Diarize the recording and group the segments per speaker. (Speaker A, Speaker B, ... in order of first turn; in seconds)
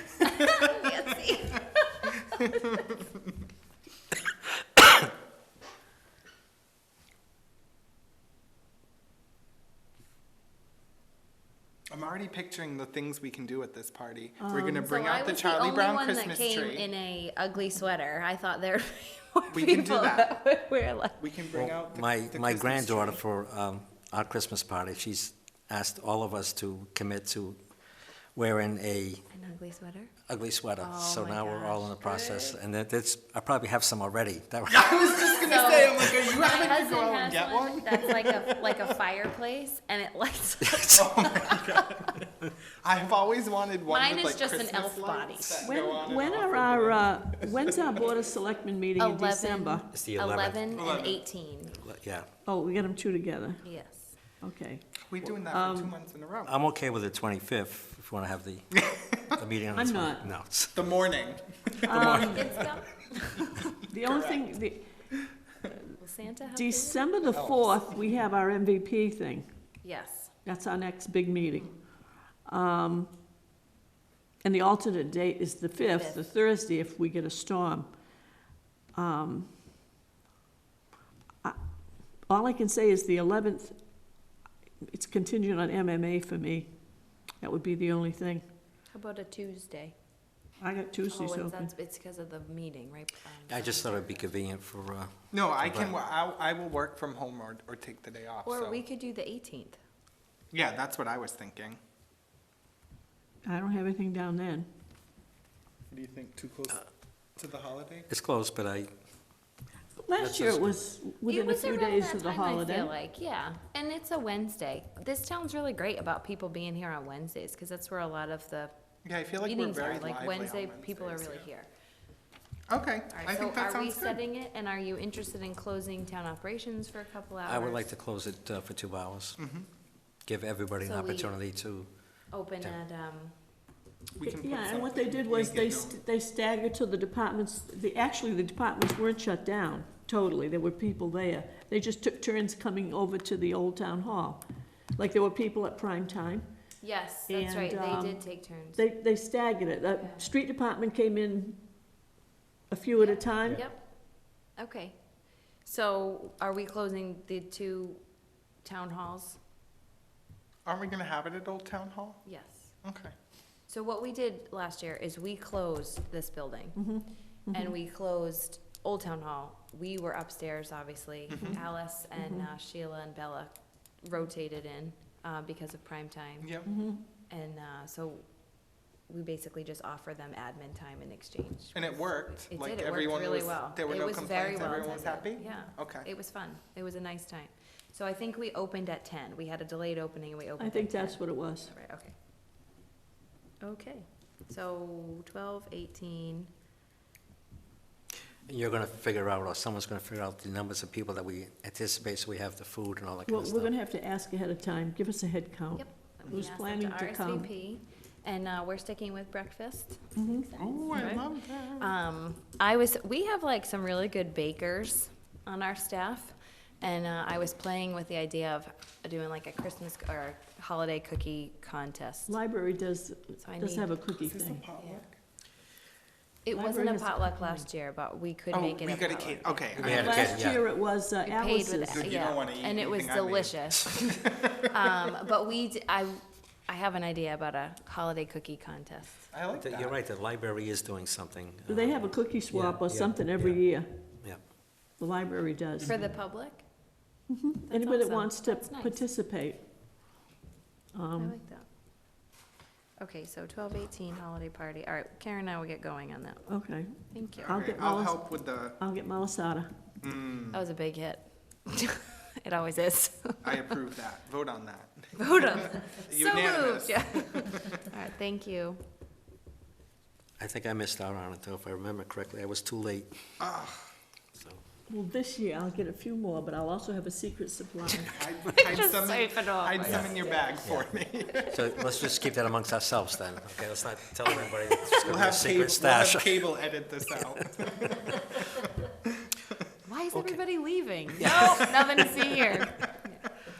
Speaker A: 0.2-2.9, 14.7-21.2, 29.3-30.1, 30.8-32.6, 35.4-42.0, 43.9-45.8, 49.0-51.8, 53.6-54.1, 62.0-63.7, 65.7-67.1, 69.8-70.3, 75.8-76.3, 88.9-89.9, 91.1-94.1, 98.4-99.8, 111.2-118.7, 119.4-121.7, 123.1-127.9, 130.8-131.3, 132.3-133.3, 146.8-148.8, 149.9-150.2, 153.0-153.8, 154.6-154.9, 155.6-158.0, 158.6-159.4, 162.2-162.7, 163.7-166.8, 167.5-176.5, 177.3-178.2, 179.1-192.1, 193.6-196.5, 205.8-222.3, 223.4-223.9, 224.8-225.0, 226.4-230.1, 231.2-239.2, 245.8-246.6, 247.7-249.0, 251.2-251.7, 253.0-256.4, 257.1-257.6, 260.5-263.7, 265.2-268.8, 278.5-280.6, 289.9-293.2
Speaker B: 11.9-16.9, 19.5-20.3, 21.2-23.2, 34.7-38.9, 40.9-42.2, 42.8-47.8, 50.7-51.2, 55.1-56.5, 60.7-62.8, 63.5-64.4, 67.2-67.8, 95.3-98.8, 100.5-101.8, 105.9-106.8, 107.4-108.1, 119.0-121.5, 122.7-124.2, 129.4-129.7, 134.2-136.0, 160.7-162.2, 162.8-163.1, 171.3-171.6, 176.4-176.7, 181.7-186.1, 210.6-211.9, 224.2-225.1, 228.5-230.3, 231.9-234.7, 239.3-240.0, 257.3-258.8, 260.0-260.6, 263.4-267.6, 273.4-273.9, 278.0-282.0, 285.0-288.2
Speaker C: 14.4-14.8, 45.6-49.9, 52.4-53.6, 54.4-55.9, 59.7-60.3, 61.8-62.6, 63.9-64.9, 66.5-69.5, 70.4-71.7, 72.5-73.1, 74.4-77.9, 78.9-79.5, 82.3-83.8, 84.9-86.7, 87.4-88.4, 90.6-91.7, 103.4-104.7, 110.0-112.9, 134.2-144.4, 144.9-146.5, 147.3-151.6, 152.7-153.6, 166.8-167.7, 172.2-172.5, 176.7-177.0, 190.6-191.7, 203.2-207.5, 210.2-210.5, 222.3-224.6, 226.5-227.7, 229.8-232.1, 241.7-243.9, 245.0-245.9, 247.3-249.6, 250.9-251.4, 256.5-259.7, 274.9-278.1
Speaker D: 21.5-27.6, 28.3-29.2, 30.3-34.9, 40.6-41.0, 49.9-50.6, 51.8-52.2, 56.5-58.8, 59.3-60.7, 93.5-95.9, 108.1-108.9, 110.1-110.8, 127.5-129.4, 130.2-131.9, 198.5-203.7, 229.7-230.6, 239.6-243.6, 270.4-273.1, 274.3-274.6, 279.9-280.1, 280.6-280.9, 281.5-286.5, 290.1-290.4, 291.1-292.0